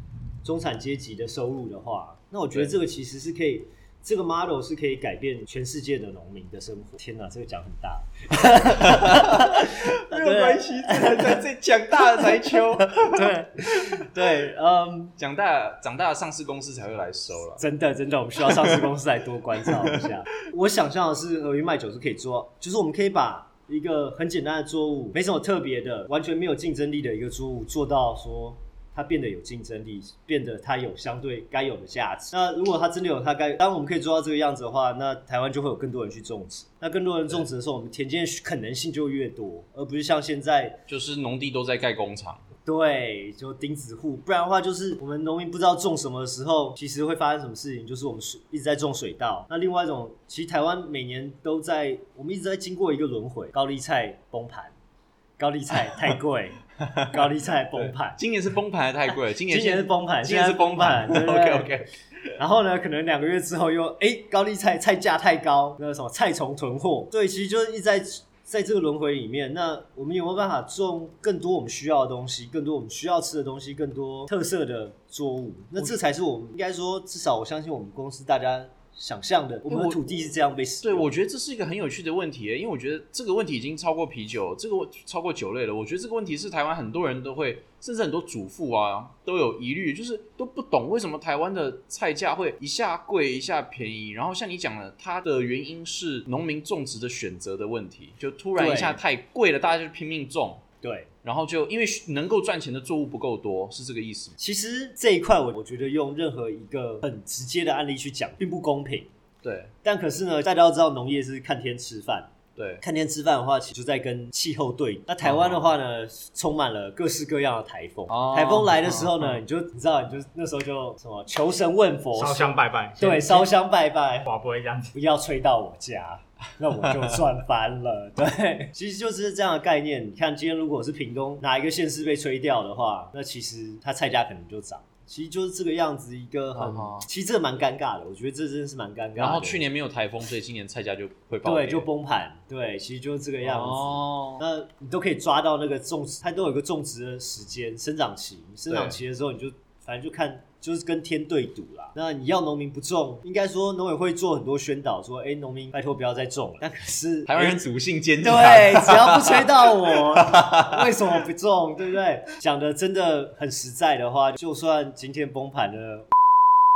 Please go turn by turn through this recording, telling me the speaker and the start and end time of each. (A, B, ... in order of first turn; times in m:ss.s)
0:00.4-0:15.2 A
0:08.8-0:13.9 B
0:15.2-0:17.6 B
0:17.6-0:40.8 A
0:18.5-0:18.8 B
0:19.7-0:20.0 B
0:40.9-0:42.4 B
0:42.6-0:54.8 A
0:55.4-0:58.2 A
0:56.8-0:57.1 B
0:57.8-1:01.9 B
0:59.5-1:01.7 A
1:02.4-1:21.1 A
1:19.7-1:20.0 B
1:20.8-1:40.6 B
1:38.6-1:39.0 A
1:40.8-1:41.1 A
1:41.2-1:44.4 B
1:44.4-1:49.1 A
1:49.4-1:49.7 B
1:49.8-2:04.3 A
1:52.6-1:52.8 B
1:55.2-1:55.7 B
1:58.1-1:59.4 B
2:02.2-2:03.5 C
2:04.3-2:04.9 C
2:04.9-2:19.6 A
2:16.5-2:17.1 B
2:19.2-2:21.9 B
2:21.4-2:37.6 A
2:23.4-2:24.4 B
2:28.7-2:29.0 B
2:37.3-2:40.9 B
2:38.2-2:46.1 A